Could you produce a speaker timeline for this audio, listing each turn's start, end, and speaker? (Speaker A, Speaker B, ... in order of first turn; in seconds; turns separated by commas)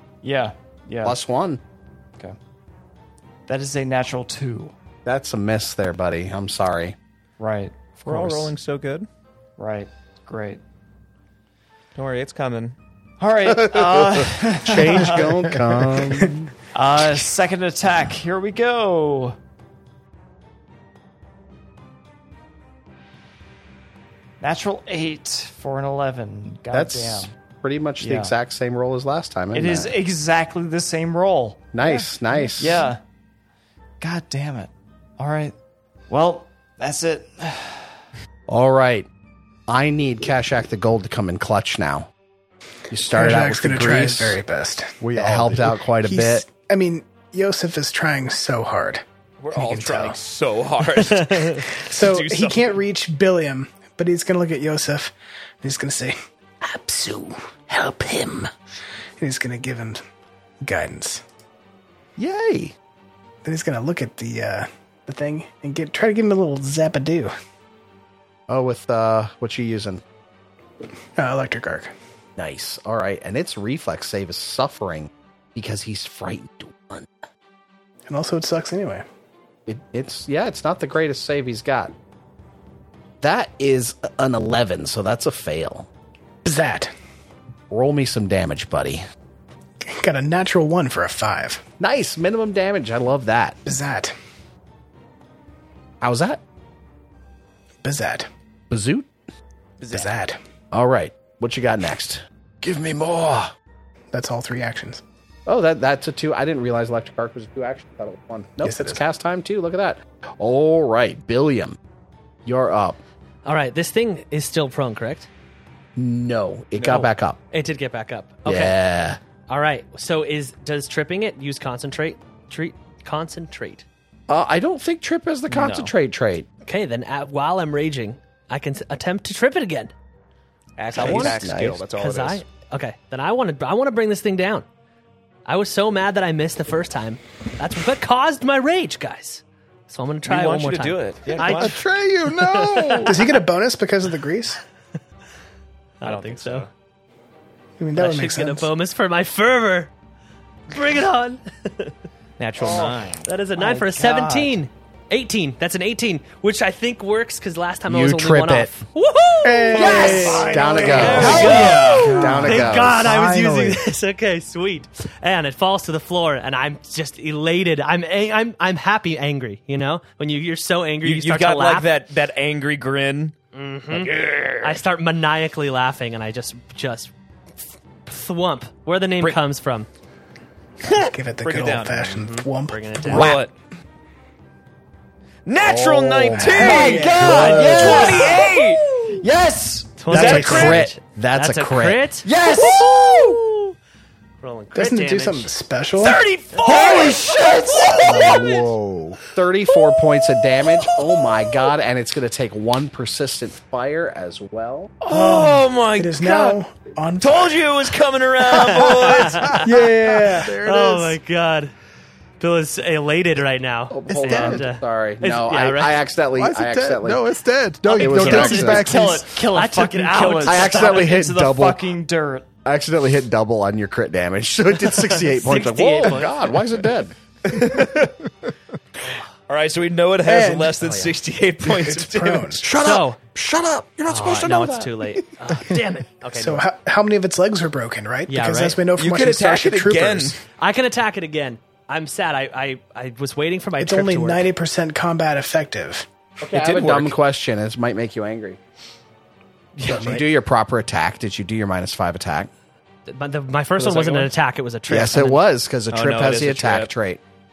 Speaker A: 0.2-1.2, Speaker B: 1.0-1.6, Speaker A: 3.5-4.7, Speaker B: 5.0-7.0, Speaker A: 7.4-8.0, Speaker C: 8.0-9.1, Speaker B: 8.1-8.5, Speaker A: 9.6-10.6, Speaker C: 11.9-12.8, Speaker A: 13.2-15.4, Speaker B: 13.6-16.5, Speaker D: 15.5-15.9, Speaker A: 16.7-19.4, Speaker A: 24.4-27.3, Speaker B: 26.7-30.0, Speaker A: 28.0-28.3, Speaker A: 29.5-33.0, Speaker B: 31.7-32.9, Speaker A: 34.0-35.5, Speaker A: 36.1-37.9, Speaker B: 38.5-39.1, Speaker B: 39.7-42.1, Speaker B: 42.9-44.4, Speaker E: 43.1-45.0, Speaker D: 45.0-45.8, Speaker B: 45.1-46.5, Speaker E: 46.0-50.2, Speaker C: 49.4-52.8, Speaker E: 51.7-56.1, Speaker B: 56.6-58.5, Speaker E: 59.2-60.0, Speaker E: 60.6-61.2, Speaker B: 62.2-62.8, Speaker E: 63.4-67.3, Speaker B: 68.5-70.0, Speaker E: 71.2-71.9, Speaker B: 72.4-77.1, Speaker E: 78.1-79.0, Speaker B: 79.7-81.9, Speaker B: 83.2-85.9, Speaker E: 86.4-86.9, Speaker B: 87.7-89.0, Speaker E: 89.8-91.6, Speaker B: 91.8-93.6, Speaker E: 93.7-94.1, Speaker B: 96.0-96.4, Speaker E: 97.8-98.3, Speaker B: 98.7-99.1, Speaker E: 99.9-100.4, Speaker B: 100.7-103.5, Speaker E: 104.1-105.0, Speaker B: 105.5-111.8, Speaker E: 108.6-109.0, Speaker B: 112.5-113.0, Speaker F: 113.5-115.3, Speaker B: 116.0-117.4, Speaker F: 116.8-118.8, Speaker B: 118.5-119.2, Speaker F: 119.5-123.9, Speaker B: 124.3-126.5, Speaker C: 125.5-125.9, Speaker F: 126.7-129.9, Speaker C: 130.8-132.4, Speaker F: 130.9-131.4, Speaker B: 130.9-131.8, Speaker F: 132.0-134.7, Speaker F: 135.5-143.2, Speaker C: 140.2-141.8, Speaker D: 141.4-143.2, Speaker E: 143.1-144.6, Speaker F: 146.0-146.7, Speaker C: 146.0-146.7, Speaker E: 147.8-148.7, Speaker F: 148.0-149.9, Speaker F: 150.7-151.9, Speaker C: 152.4-153.3, Speaker A: 152.6-153.0, Speaker F: 153.2-171.9, Speaker A: 153.6-154.5, Speaker B: 157.9-158.8, Speaker E: 159.5-161.7, Speaker D: 159.7-163.8, Speaker A: 159.8-161.5, Speaker C: 159.9-160.3, Speaker B: 160.5-163.1, Speaker C: 160.8-162.4, Speaker C: 171.0-173.3, Speaker F: 173.5-177.1, Speaker C: 173.9-174.8, Speaker F: 178.1-179.9, Speaker E: 180.9-183.4, Speaker C: 181.4-182.1, Speaker F: 182.1-183.4, Speaker C: 183.1-183.5, Speaker C: 185.5-188.8, Speaker E: 185.6-188.9, Speaker A: 186.5-190.0, Speaker F: 190.0-193.7, Speaker C: 190.1-190.8, Speaker E: 190.1-190.8, Speaker B: 190.1-192.1, Speaker A: 192.2-193.4, Speaker C: 192.5-193.1, Speaker F: 194.4-195.5, Speaker E: 194.7-196.2, Speaker C: 196.0-198.4, Speaker A: 196.5-198.6, Speaker F: 196.6-197.0, Speaker D: 198.0-199.2, Speaker F: 198.1-198.5, Speaker B: 199.3-204.9, Speaker C: 205.0-206.6, Speaker E: 205.1-207.6, Speaker C: 207.2-209.6, Speaker F: 208.5-209.6, Speaker E: 208.7-210.5, Speaker D: 209.2-211.2, Speaker F: 210.6-211.7, Speaker F: 212.4-216.0, Speaker B: 213.9-217.2, Speaker D: 214.1-214.6, Speaker D: 216.4-219.2, Speaker F: 217.8-221.1, Speaker B: 218.0-219.0, Speaker A: 218.0-222.5, Speaker B: 220.4-221.8, Speaker B: 222.7-227.2, Speaker F: 225.1-226.5, Speaker C: 227.5-228.1, Speaker D: 227.6-228.1, Speaker C: 229.5-232.7, Speaker E: 230.2-230.8, Speaker F: 230.8-231.2, Speaker E: 231.6-232.7, Speaker B: 232.6-235.1, Speaker F: 232.8-233.2, Speaker F: 234.1-236.7, Speaker E: 236.3-240.4, Speaker F: 238.3-238.8, Speaker C: 239.0-240.4, Speaker F: 240.6-244.5, Speaker E: 243.8-246.1, Speaker B: 246.4-248.6, Speaker C: 246.5-247.2, Speaker F: 249.8-250.2, Speaker B: 249.8-252.5, Speaker E: 249.9-250.2, Speaker F: 253.1-255.4, Speaker C: 253.8-254.3, Speaker B: 254.9-257.2, Speaker C: 255.9-256.9